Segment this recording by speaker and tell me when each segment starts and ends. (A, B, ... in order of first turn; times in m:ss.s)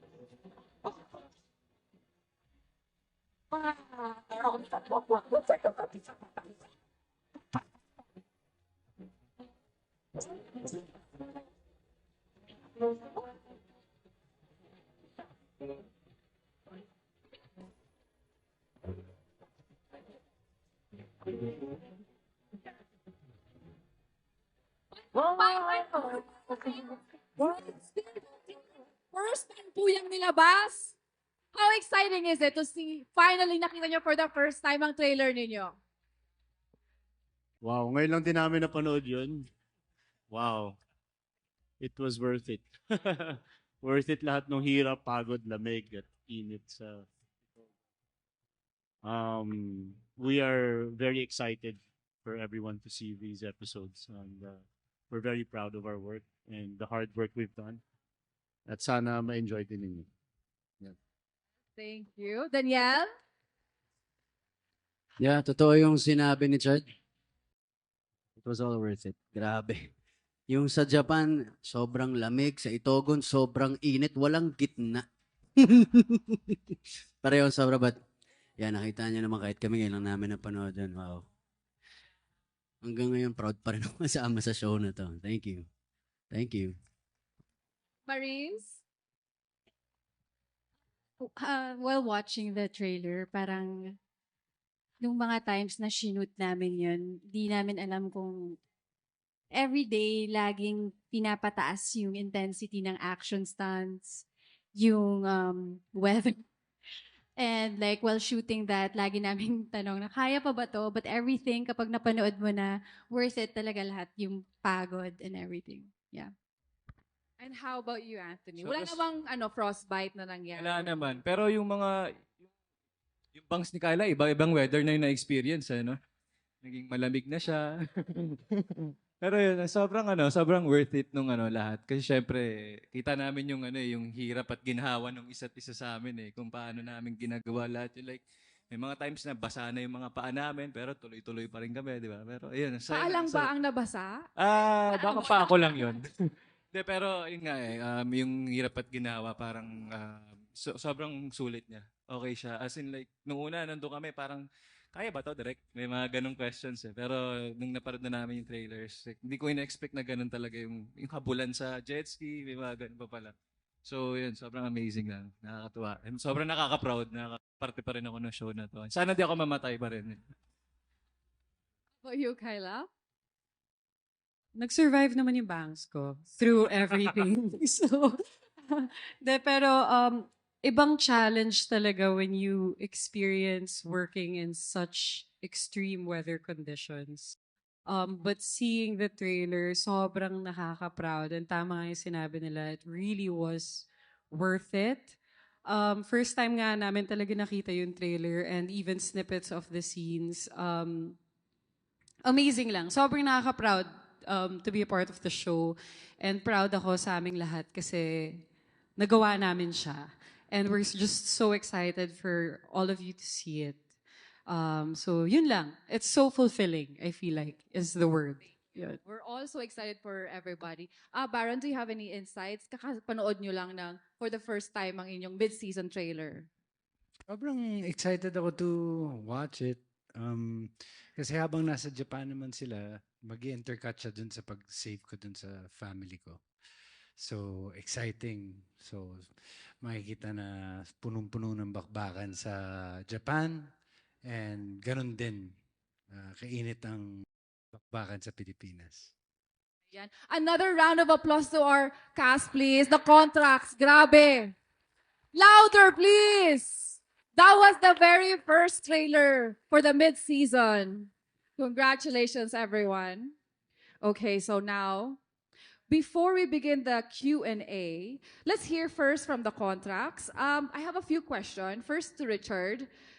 0:25.1-0:30.9 A
0:31.5-0:35.8 A
0:37.6-0:39.5 B
0:40.3-0:40.8 B
0:41.8-0:47.1 B
0:49.0-0:57.8 B
0:58.7-1:00.1 B
1:01.8-1:03.1 A
1:05.2-1:06.8 C
1:08.4-1:09.9 C
1:10.5-1:15.0 C
1:15.6-1:18.0 C
1:18.6-1:21.3 C
1:22.8-1:25.7 C
1:26.3-1:26.8 C
1:28.1-1:28.8 A
1:31.2-1:34.0 D
1:35.0-1:38.6 D
1:39.5-1:44.2 D
1:44.8-1:46.4 D
1:47.4-1:56.3 D
1:57.4-2:00.9 A
1:58.6-1:59.0 E
2:00.6-2:02.2 E
2:03.3-2:06.0 E
2:06.6-2:08.6 E
2:09.2-2:23.5 E
2:22.9-2:24.3 A
2:24.4-2:43.3 E
2:24.9-2:25.5 A
2:43.8-2:50.2 E
2:52.0-2:52.9 A
2:54.6-2:58.2 F
2:58.7-3:07.3 F
3:07.9-3:21.2 F
3:22.3-3:28.4 F
3:29.0-3:33.8 F
3:34.5-3:39.0 F
3:38.9-3:46.5 A
3:47.3-3:56.4 G
3:57.2-4:03.6 G
4:04.2-4:05.6 G
4:06.1-4:07.0 G
4:07.7-4:09.1 G
4:09.9-4:14.6 A
4:15.3-4:23.3 A
4:24.0-4:25.2 A
4:25.9-4:32.9 A